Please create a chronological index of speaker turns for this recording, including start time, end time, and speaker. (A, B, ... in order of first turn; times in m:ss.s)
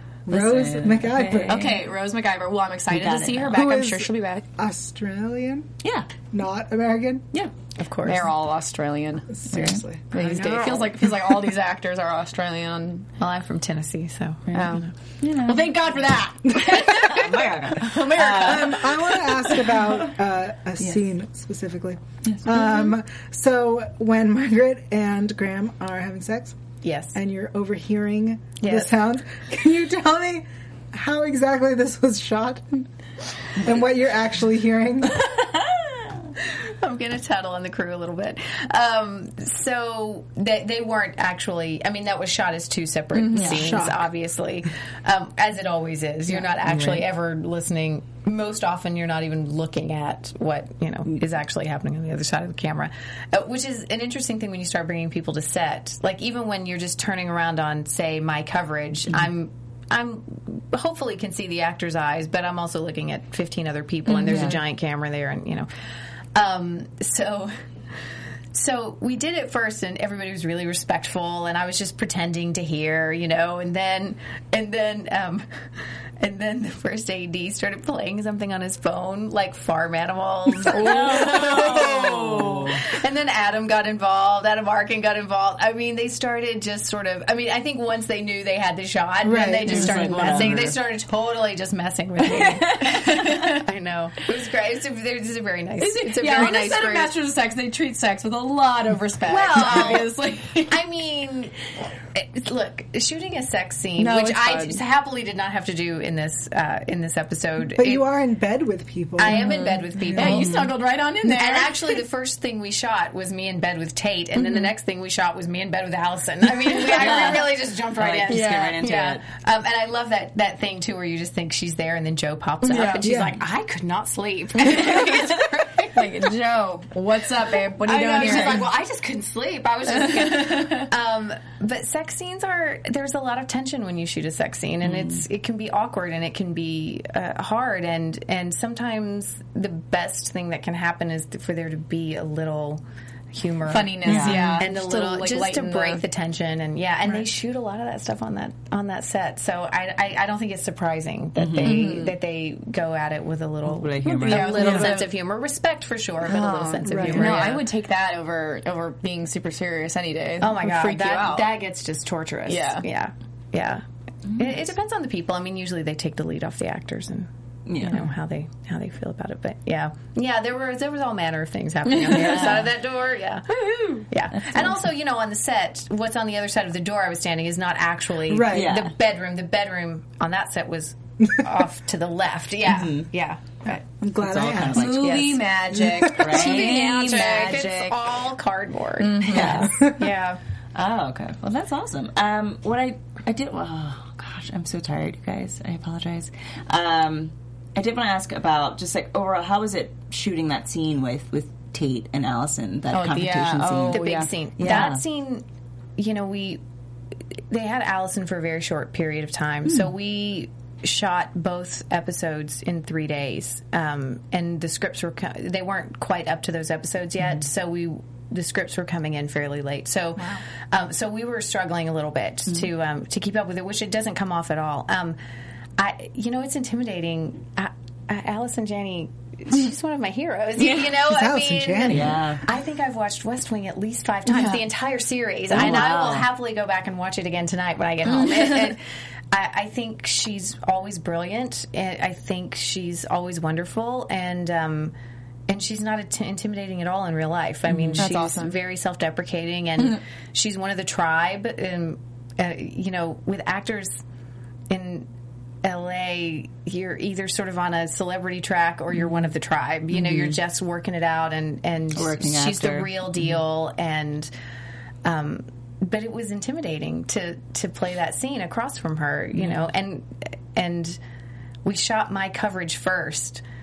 0:00.3-0:01.6 A
0:00.3-0:01.8 B
0:01.5-0:04.5 C
0:02.9-0:03.6 B
0:03.5-0:05.7 A
0:05.8-0:06.1 B
0:06.3-0:07.2 A
0:07.8-0:08.3 D
0:08.0-0:09.4 C
0:09.3-0:10.0 A
0:09.5-0:11.0 B
0:10.1-0:13.1 C
0:13.2-0:14.8 D
0:14.5-0:15.7 B
0:14.5-0:18.8 C
0:16.6-0:20.1 B
0:17.9-0:26.6 A
0:22.3-0:22.9 B
0:26.8-0:27.2 D
0:27.2-0:32.8 A
0:28.6-0:28.9 D
0:33.6-0:35.3 A
0:36.4-1:05.7 D
0:43.1-0:43.6 C
0:43.4-0:44.1 A
0:46.7-0:47.0 B
1:04.2-1:04.6 B
1:06.3-1:07.5 D
1:08.5-1:37.2 D
1:20.7-1:22.8 B
1:20.7-1:22.7 C
1:29.2-1:30.1 A
1:29.7-1:30.8 B
1:32.3-1:33.1 B
1:35.8-1:40.8 C
1:39.3-1:40.1 D
1:40.7-1:41.5 D
1:42.1-1:48.0 D
1:44.0-1:44.8 C
1:47.7-1:49.5 A
1:49.2-1:50.7 D
1:49.3-1:52.0 C
1:50.0-1:50.4 A
1:50.3-1:50.7 B
1:51.2-2:06.1 D
1:56.9-1:59.2 B
1:58.3-1:58.9 C
2:02.6-2:03.1 C
2:03.0-2:03.4 A
2:04.6-2:05.1 C
2:05.9-2:08.7 C
2:07.8-2:37.6 D
2:09.9-2:10.9 C
2:14.8-2:15.2 B
2:23.7-2:26.0 C
2:24.0-2:24.6 B
2:31.4-2:31.8 B
2:31.6-2:32.2 C
2:33.7-2:35.0 B
2:34.0-2:35.1 C
2:36.2-2:41.5 C
2:36.9-2:37.5 A
2:40.4-2:43.8 D
2:42.5-2:42.8 C
2:44.4-2:47.3 D
2:47.7-2:48.1 B
2:47.8-2:53.5 D
2:51.9-2:52.3 C
2:52.1-2:52.7 B
2:53.5-2:54.1 C
2:54.0-3:03.8 D
2:58.3-2:58.7 A
2:58.5-2:58.9 B
3:02.7-3:03.1 B
3:04.0-3:05.4 B
3:04.0-3:05.0 A
3:04.7-3:08.0 C
3:05.0-3:05.4 D
3:05.7-3:06.2 A
3:06.1-3:07.0 B
3:06.2-3:10.4 D
3:09.0-3:09.7 C
3:09.3-3:09.7 B
3:10.8-3:25.0 B
3:22.9-3:24.3 C
3:23.9-3:25.4 D
3:26.0-3:26.6 D
3:27.5-3:45.2 D
3:45.8-4:04.9 D
3:51.0-3:52.2 A
3:51.9-3:52.4 B
3:55.5-3:56.3 B
3:58.1-3:58.5 C
4:05.5-4:14.0 D
4:07.7-4:08.1 B
4:08.0-4:08.6 C
4:14.7-4:15.1 D
4:15.6-4:24.3 D
4:19.9-4:20.4 B
4:21.9-4:23.3 B
4:25.0-4:31.0 D
4:31.6-4:33.4 D